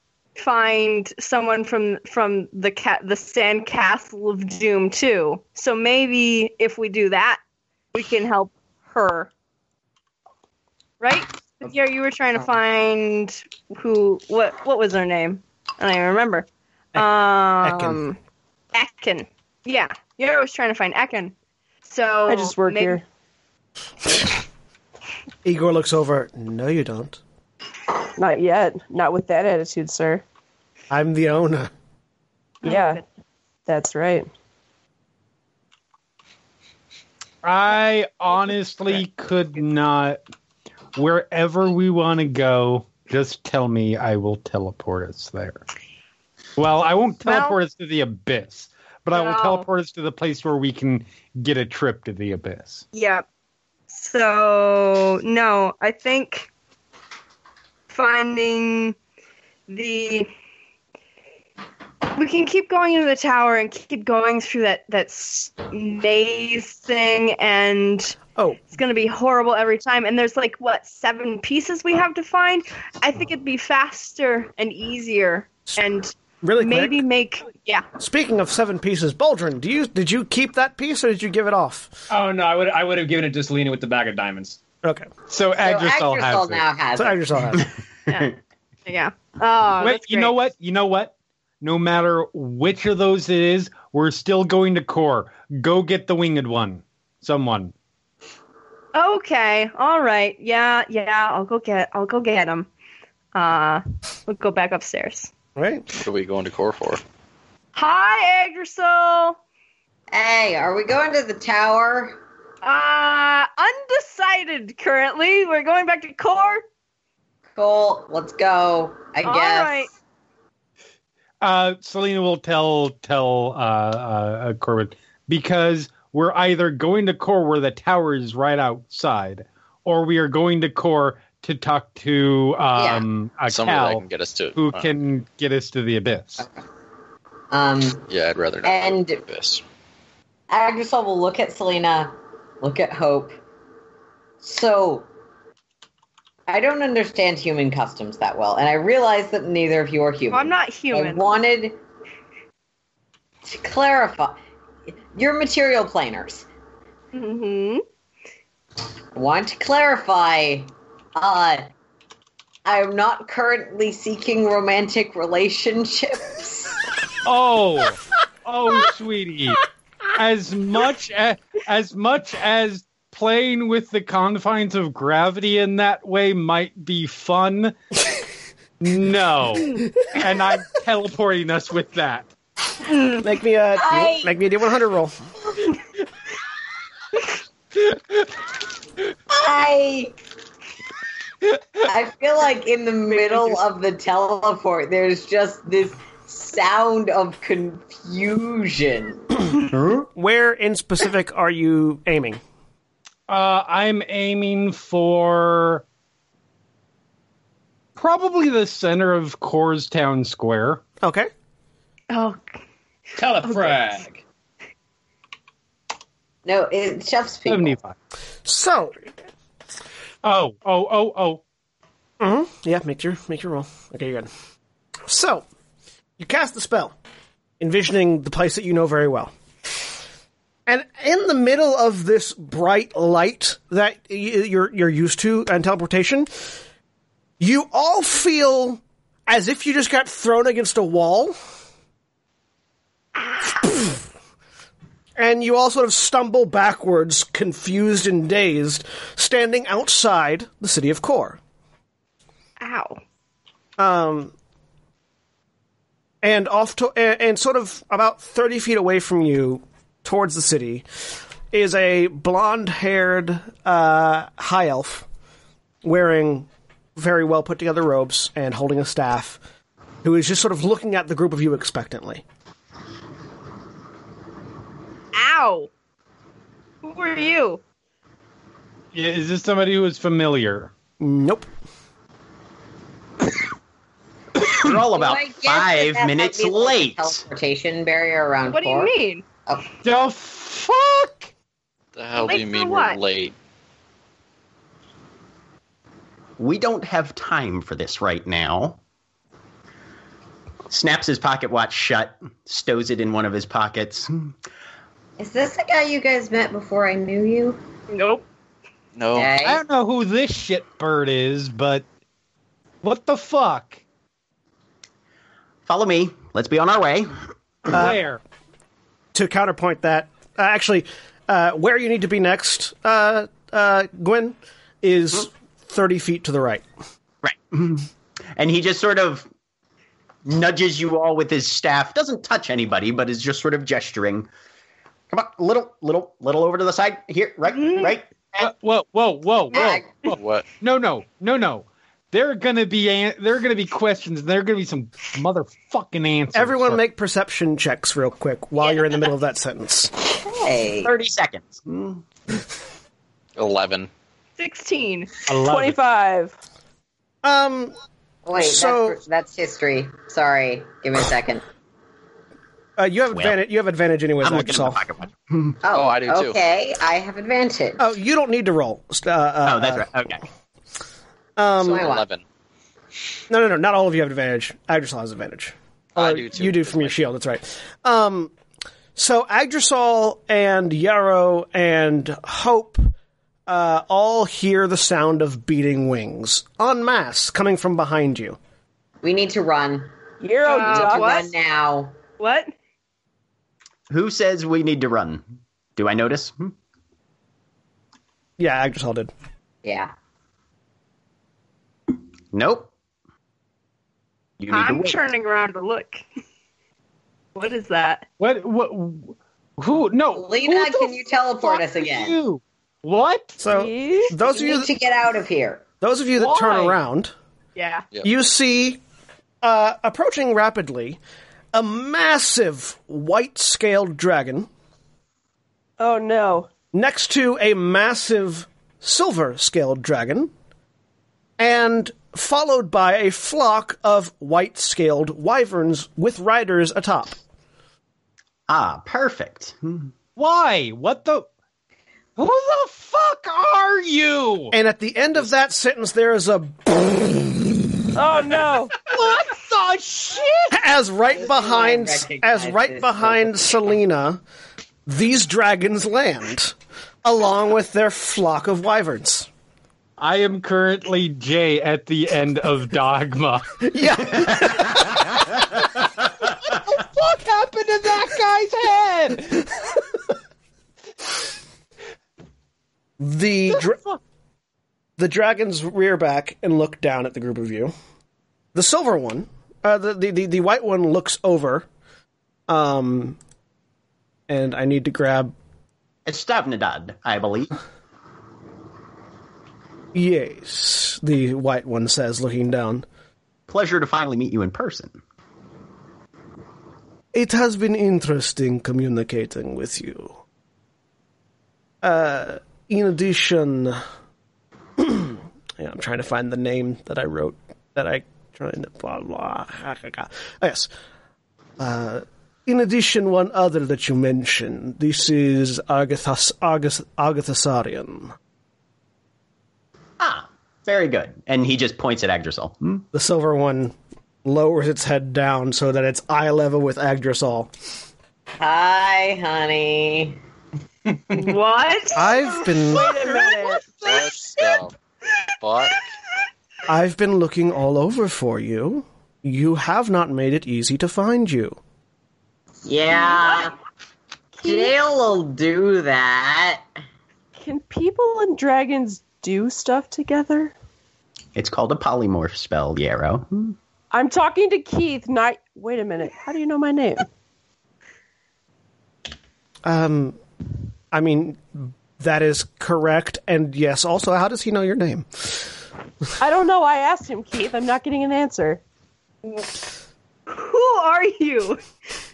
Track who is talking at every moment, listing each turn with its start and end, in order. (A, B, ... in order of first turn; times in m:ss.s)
0:00.4-0:07.4 A
0:07.9-0:09.3 A
0:11.0-0:18.2 A
0:17.6-0:18.0 B
0:18.7-0:21.3 A
0:21.8-0:23.0 A
0:22.3-0:23.0 C
0:25.4-0:27.2 B
0:28.2-0:30.2 C
0:30.9-0:31.7 B
0:32.6-0:33.0 C
0:32.6-0:33.0 A
0:33.7-0:34.3 C
0:37.4-0:40.2 D
0:41.0-0:45.6 D
0:46.6-0:52.8 D
0:47.3-0:47.6 A
0:49.1-0:49.7 A
0:52.9-0:53.2 A
0:53.9-0:56.5 A
0:57.9-0:59.0 A
0:59.7-1:00.3 A
1:02.2-1:08.2 A
1:08.7-1:17.8 A
1:16.4-1:17.0 B
1:18.0-1:21.9 B
1:22.1-1:24.6 E
1:24.8-1:25.1 B
1:25.3-1:26.6 D
1:25.6-1:27.6 F
1:27.0-1:27.7 B
1:28.1-1:30.3 A
1:29.8-1:37.7 D
1:39.0-1:42.7 A
1:43.3-1:45.3 A
1:45.6-1:45.8 B
1:45.9-1:47.0 G
1:47.8-1:49.4 A
1:50.1-1:52.2 F
1:52.6-1:56.6 A
1:57.6-1:59.9 F
1:59.2-1:59.9 A
2:01.4-2:14.0 D
2:12.8-2:13.0 F
2:13.5-2:14.9 G
2:14.6-2:16.5 D
2:17.5-2:18.0 F
2:18.1-2:19.6 G
2:18.6-2:19.2 F
2:20.5-2:23.4 F
2:24.4-2:25.1 F
2:26.5-2:31.8 F
2:30.3-2:31.3 A
2:33.4-2:34.4 F
2:35.1-2:36.5 F
2:37.1-2:37.8 A
2:39.2-2:41.7 F
2:42.7-2:46.8 F
2:47.2-2:49.6 D
2:50.2-2:57.8 D
2:58.8-3:02.3 D
3:03.2-3:05.2 B
3:03.8-3:04.3 F
3:09.3-3:10.2 F
3:11.8-3:19.3 F
3:19.7-3:22.4 B
3:23.3-3:25.8 D
3:28.0-3:30.8 D
3:31.0-3:31.3 B
3:32.1-3:32.6 A
3:33.2-3:34.2 E
3:33.4-3:33.9 A
3:36.4-3:37.8 F
3:37.5-3:37.9 D
3:38.5-3:39.0 B
3:40.2-3:41.4 D
3:42.2-3:44.3 B
3:45.1-3:45.4 B
3:46.2-3:47.0 B
3:47.6-3:49.3 B
3:50.7-3:56.3 B
3:57.4-4:01.4 B
4:03.2-4:03.5 A
4:05.2-4:11.4 B
4:12.6-4:13.0 A
4:13.8-4:14.3 B
4:16.2-4:20.8 B
4:21.5-4:25.1 B
4:25.8-4:29.4 B
4:30.0-4:32.2 B
4:35.1-4:35.7 A
4:36.8-4:37.6 A
4:38.9-4:40.7 D
4:41.0-4:41.5 B
4:44.5-4:47.2 H
4:44.8-4:48.9 F
4:48.5-4:49.2 A
4:49.8-4:51.3 D
4:52.0-4:53.4 G
4:52.2-4:53.0 A
4:56.4-4:58.8 H
5:00.7-5:04.3 H
5:05.2-5:07.6 F
5:07.9-5:08.2 A
5:09.0-5:09.3 G
5:09.1-5:09.6 F
5:09.4-5:11.8 D
5:12.8-5:13.8 D
5:15.7-5:17.2 H
5:17.7-5:18.2 D
5:17.7-5:18.0 B
5:19.1-5:26.6 B
5:27.2-5:29.3 H
5:30.2-5:34.3 H
5:35.1-5:38.5 H
5:37.5-5:38.0 A
5:38.4-5:46.8 D
5:39.5-5:40.0 F
5:40.1-5:40.5 G
5:46.3-5:50.0 B
5:50.0-5:50.9 F
5:50.8-5:52.0 H
5:53.4-5:53.9 G
5:54.4-5:55.2 A
5:55.3-5:55.8 D
5:55.4-5:56.4 C
5:57.2-5:57.7 B
5:58.3-6:01.4 F
5:58.4-5:59.0 B
6:02.8-6:04.8 B
6:03.1-6:03.4 H
6:04.2-6:05.6 H
6:05.6-6:07.9 F
6:05.7-6:06.4 G
6:07.8-6:09.9 B
6:09.4-6:10.2 H
6:11.4-6:11.9 B
6:11.6-6:12.2 G
6:11.7-6:12.0 F
6:13.3-6:18.3 B
6:16.0-6:17.0 G
6:19.0-6:22.9 B
6:23.5-6:28.4 B
6:29.0-6:29.9 F
6:30.2-6:31.3 C
6:30.5-6:31.3 A
6:30.7-6:32.0 F
6:32.2-6:32.5 A
6:33.9-6:35.2 H
6:35.8-6:36.5 H
6:38.4-6:39.1 B
6:39.6-6:39.9 F
6:42.3-6:42.7 H
6:44.4-6:45.0 H
6:44.5-6:46.0 A
6:47.4-6:48.0 A
6:48.2-6:53.4 D
6:50.1-6:52.2 F
6:53.4-6:54.7 B
6:53.5-6:54.2 C
6:54.3-6:55.6 F
6:55.8-6:57.1 B
6:56.2-6:56.8 D
6:57.6-6:57.8 A
6:58.0-6:58.8 B
6:59.4-7:01.0 B
7:01.5-7:04.5 B
7:05.8-7:06.5 C
7:06.7-7:10.3 B
7:11.4-7:17.2 B
7:18.5-7:19.9 H
7:20.2-7:21.3 D
7:22.2-7:24.5 D
7:24.5-7:27.5 B
7:28.0-7:28.8 C
7:28.8-7:30.6 D
7:30.5-7:34.2 B
7:31.2-7:33.4 F
7:34.9-7:39.3 B
7:40.0-7:43.6 D
7:43.7-7:44.9 B
7:46.2-7:49.6 D
7:53.0-7:53.8 B
7:53.6-7:54.0 D
7:55.0-7:57.7 B
7:58.6-8:01.7 B
8:02.5-8:03.2 B
8:04.3-8:05.3 B
8:06.1-8:07.5 H
8:09.9-8:12.8 B
8:13.5-8:15.0 H
8:17.1-8:20.2 B
8:21.8-8:23.8 B
8:24.8-8:30.7 B
8:31.6-8:38.1 B
8:40.0-8:42.8 H
8:42.9-8:47.5 B
8:48.4-8:50.2 F
8:51.2-8:52.3 A
8:52.0-8:52.8 B
8:52.8-8:53.2 A
8:52.9-8:53.4 D
8:53.8-8:54.8 G
8:55.4-8:55.8 G
8:56.7-9:01.6 B
9:02.7-9:03.5 F
9:03.1-9:03.4 A
9:04.4-9:06.6 F
9:04.5-9:04.7 C
9:07.4-9:10.5 C
9:11.4-9:13.6 H
9:13.9-9:17.1 C
9:19.6-9:20.2 B
9:20.9-9:25.5 B
9:26.2-9:28.6 C
9:30.3-9:31.6 A